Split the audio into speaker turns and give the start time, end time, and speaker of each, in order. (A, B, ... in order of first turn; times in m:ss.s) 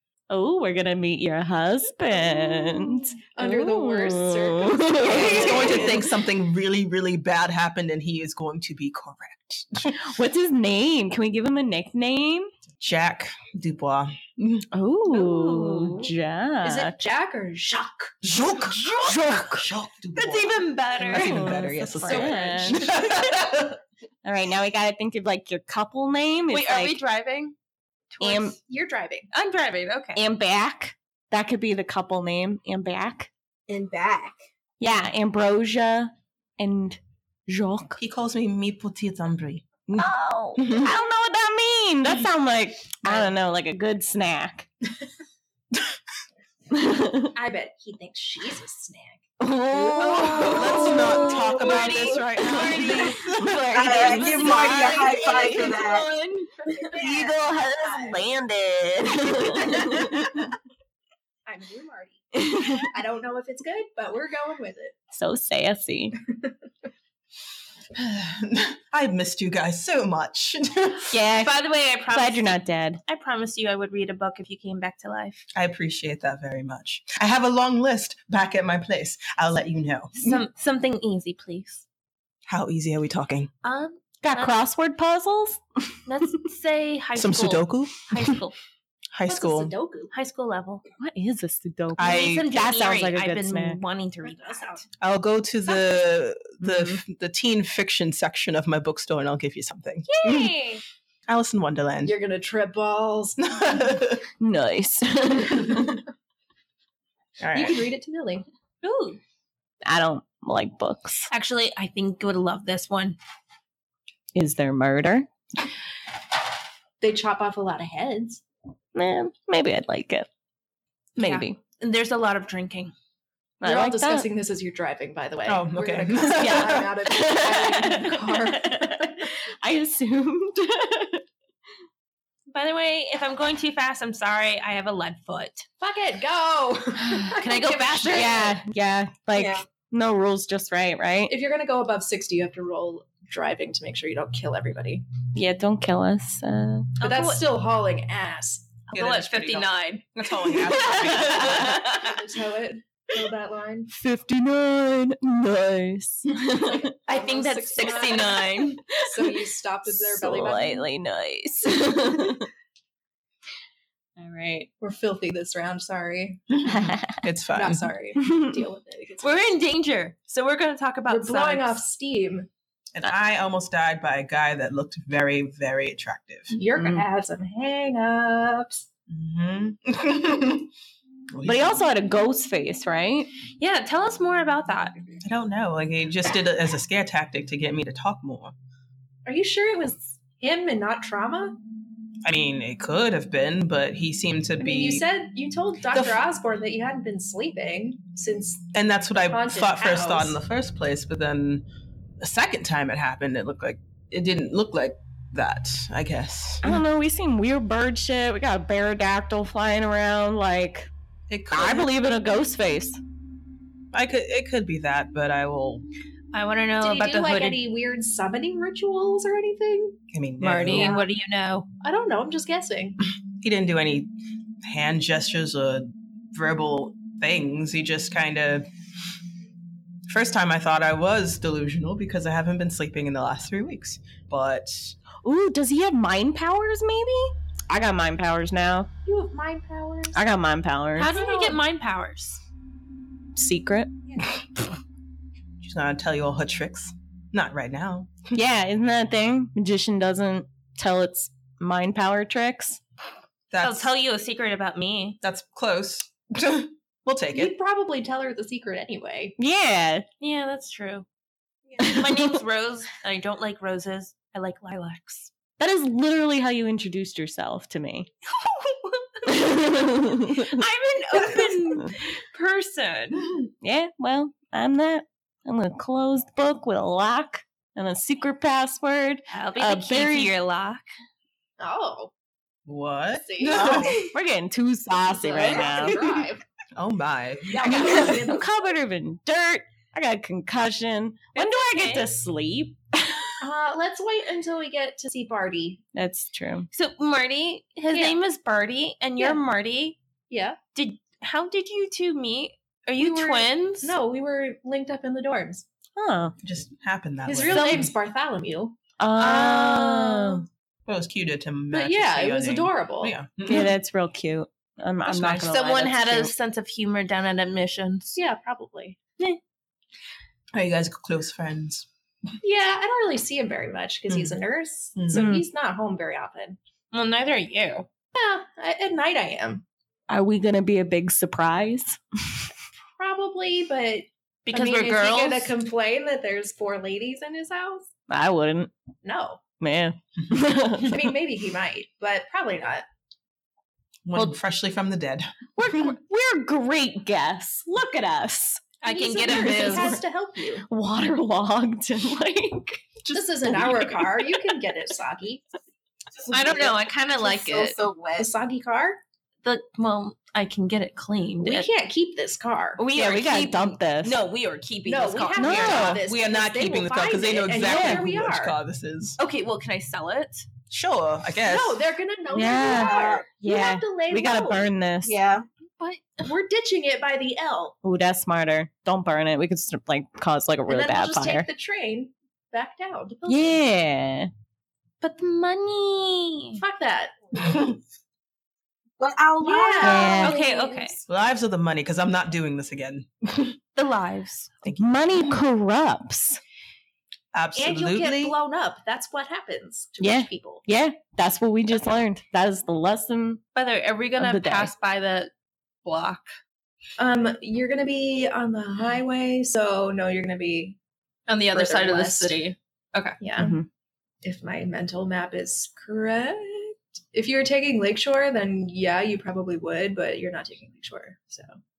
0:00.3-0:06.0 A
0:03.3-0:06.0 B
0:05.2-0:10.0 C
0:10.0-0:12.5 A
0:12.8-0:14.7 C
0:14.7-0:17.0 A
0:15.1-0:16.1 D
0:16.6-0:18.2 B
0:18.2-0:23.8 C
0:19.0-0:19.7 A
0:20.2-0:21.6 D
0:21.1-0:22.9 A
0:22.0-0:23.1 B
0:24.2-0:27.0 A
0:26.5-0:27.6 D
0:28.1-0:28.5 D
0:28.2-0:28.6 A
0:28.6-0:29.3 B
0:29.3-0:30.2 D
0:30.2-0:33.3 A
0:33.7-0:34.4 E
0:34.8-0:38.0 A
0:38.0-0:40.9 C
0:39.9-0:44.7 A
0:46.7-0:47.3 A
0:47.3-0:49.2 B
0:49.4-1:00.4 A
0:49.9-0:55.6 C
0:50.2-0:53.2 D
0:53.7-0:56.1 E
0:56.8-0:57.3 B
0:57.8-0:58.2 B
1:01.5-1:05.0 B
1:02.4-1:02.9 A
1:05.1-1:06.2 A
1:08.0-1:11.2 C
1:11.1-1:13.0 A
1:11.4-1:15.4 D
1:15.6-1:20.4 C
1:20.2-1:21.8 D
1:22.5-1:23.5 C
1:23.6-1:24.6 D
1:24.2-1:26.0 A
1:26.1-1:28.6 D
1:27.2-1:28.4 C
1:29.1-1:29.7 C
1:29.3-1:30.1 B
1:30.1-1:30.8 D
1:31.0-1:33.8 A
1:32.0-1:32.5 C
1:32.0-1:34.8 D
1:34.2-1:34.8 B
1:35.0-1:40.5 C
1:36.6-1:37.0 A
1:40.1-1:40.8 D
1:41.3-1:42.2 C
1:42.0-1:43.8 B
1:43.4-1:44.2 C
1:44.4-1:46.0 A
1:47.4-1:47.9 C
1:47.5-1:48.4 B
1:48.8-1:49.2 D
1:49.8-1:51.3 A
1:51.3-1:53.2 D
1:54.4-1:55.3 A
1:57.0-1:58.4 B
1:59.0-2:00.3 A
2:01.2-2:01.6 A
2:01.2-2:02.9 D
2:03.6-2:04.3 A
2:03.6-2:09.3 B
2:05.5-2:06.9 C
2:06.4-2:11.2 A
2:12.5-2:15.7 D
2:15.8-2:18.6 B
2:17.4-2:18.6 D
2:18.1-2:21.3 A
2:19.3-2:19.6 E
2:21.3-2:25.0 B
2:25.4-2:27.0 A
2:27.0-2:27.4 D
2:27.0-2:28.7 B
2:28.9-2:32.1 D
2:28.9-2:32.0 C
2:31.2-2:33.9 B
2:33.9-2:36.9 A
2:36.5-2:40.9 B
2:37.1-2:38.8 D
2:37.9-2:42.5 A
2:44.2-2:44.7 A
2:44.8-2:46.5 B
2:46.7-2:47.2 A
2:46.7-2:47.9 C
2:47.5-2:49.5 B
2:48.2-2:48.6 A
2:49.2-2:51.8 D
2:51.1-2:52.5 B
2:53.0-2:56.6 C
2:56.5-2:58.8 B
2:56.8-2:57.0 A
2:59.1-3:00.7 C
3:01.3-3:01.8 C
3:01.4-3:03.3 A
3:03.6-3:05.0 D
3:05.2-3:08.5 C
3:09.3-3:11.6 B
3:12.2-3:15.0 C
3:14.6-3:18.7 B
3:15.9-3:16.2 C
3:18.7-3:21.6 C
3:19.3-3:20.4 B
3:22.2-3:26.8 C
3:26.6-3:30.9 A
3:31.3-3:31.9 C
3:31.5-3:33.0 A
3:33.9-3:35.8 C
3:36.3-3:37.6 D
3:36.8-3:40.0 B
3:40.1-3:41.0 C
3:40.4-3:41.7 D
3:40.8-3:41.0 E
3:41.8-3:43.0 B
3:43.4-3:44.1 C
3:44.6-3:48.7 C
3:50.1-3:55.0 C
3:55.2-3:58.9 A
3:59.1-4:00.2 B
4:00.1-4:01.1 A
4:01.0-4:02.4 D
4:01.0-4:01.6 B
4:03.4-4:03.9 A
4:05.6-4:08.3 C
4:08.3-4:12.8 A
4:13.5-4:13.9 C
4:13.6-4:15.2 D
4:15.2-4:17.5 C
4:17.3-4:19.4 B
4:19.4-4:20.1 A
4:20.2-4:21.1 D
4:21.8-4:22.4 A
4:21.8-4:25.3 D
4:25.6-4:28.1 A
4:29.3-4:30.6 A
4:30.5-4:33.4 D
4:33.6-4:40.3 A
4:39.3-4:40.9 D
4:41.6-4:42.1 B
4:42.7-4:44.1 C
4:43.2-4:44.0 B
4:44.1-4:46.0 A
4:45.1-4:46.4 B
4:46.8-4:48.3 C
4:47.5-4:48.5 B
4:47.7-4:53.3 A
4:51.4-4:52.1 D
4:53.4-4:55.8 B
4:55.9-4:56.7 A
4:56.7-5:00.0 D
4:57.9-4:58.2 B
5:00.3-5:00.6 B
5:00.8-5:04.0 D
5:03.0-5:05.6 B
5:06.0-5:06.4 A
5:06.4-5:07.9 C
5:07.3-5:08.8 B
5:07.5-5:07.9 D
5:09.0-5:10.4 A
5:09.2-5:10.4 D
5:10.9-5:13.8 C
5:11.7-5:13.2 B
5:13.5-5:16.3 A
5:15.1-5:18.2 D
5:18.2-5:19.0 B
5:20.5-5:21.9 C
5:22.4-5:26.6 B
5:24.1-5:24.4 C
5:25.0-5:25.3 C
5:25.1-5:25.4 A
5:26.9-5:27.9 D
5:28.2-5:29.6 B
5:30.1-5:32.5 A
5:33.0-5:37.9 B
5:34.5-5:35.6 D
5:38.1-5:38.7 A
5:39.0-5:39.4 B
5:39.6-5:41.1 A
5:40.8-5:42.9 B
5:44.1-5:46.0 C
5:45.6-5:50.0 A
5:48.8-5:50.0 D
5:48.8-5:50.7 B
5:50.7-5:54.2 A
5:53.1-5:55.4 B
5:56.2-5:58.3 E
5:56.3-5:57.8 D
5:58.2-5:59.0 B
5:59.4-6:01.7 D
6:01.4-6:02.8 B
6:02.8-6:06.0 D
6:02.9-6:04.2 A
6:04.9-6:08.6 B
6:05.4-6:06.0 A
6:06.0-6:09.2 C
6:07.6-6:08.1 A
6:09.2-6:10.5 D
6:10.7-6:11.8 C
6:11.4-6:14.7 B
6:12.3-6:15.2 A
6:12.6-6:13.3 E
6:15.0-6:15.4 E
6:15.8-6:16.1 D
6:16.2-6:17.8 B
6:17.8-6:21.5 A
6:20.7-6:23.6 B
6:23.3-6:24.3 A
6:25.0-6:26.6 D
6:26.6-6:27.1 B
6:27.4-6:27.8 C
6:29.0-6:30.4 E
6:29.4-6:31.0 B
6:29.8-6:30.4 A
6:30.2-6:31.0 D
6:31.1-6:33.6 C
6:33.8-6:34.6 D
6:34.6-6:35.2 C
6:34.8-6:36.4 A
6:37.3-6:38.4 C
6:37.5-6:40.6 B
6:40.0-6:43.4 A
6:43.6-6:45.3 D
6:44.2-6:44.7 A
6:45.8-6:46.3 D
6:47.0-6:50.8 B
6:51.3-6:53.2 D
6:51.5-6:52.4 B
6:53.2-6:53.6 B
6:53.4-6:53.7 A
6:54.2-7:01.6 B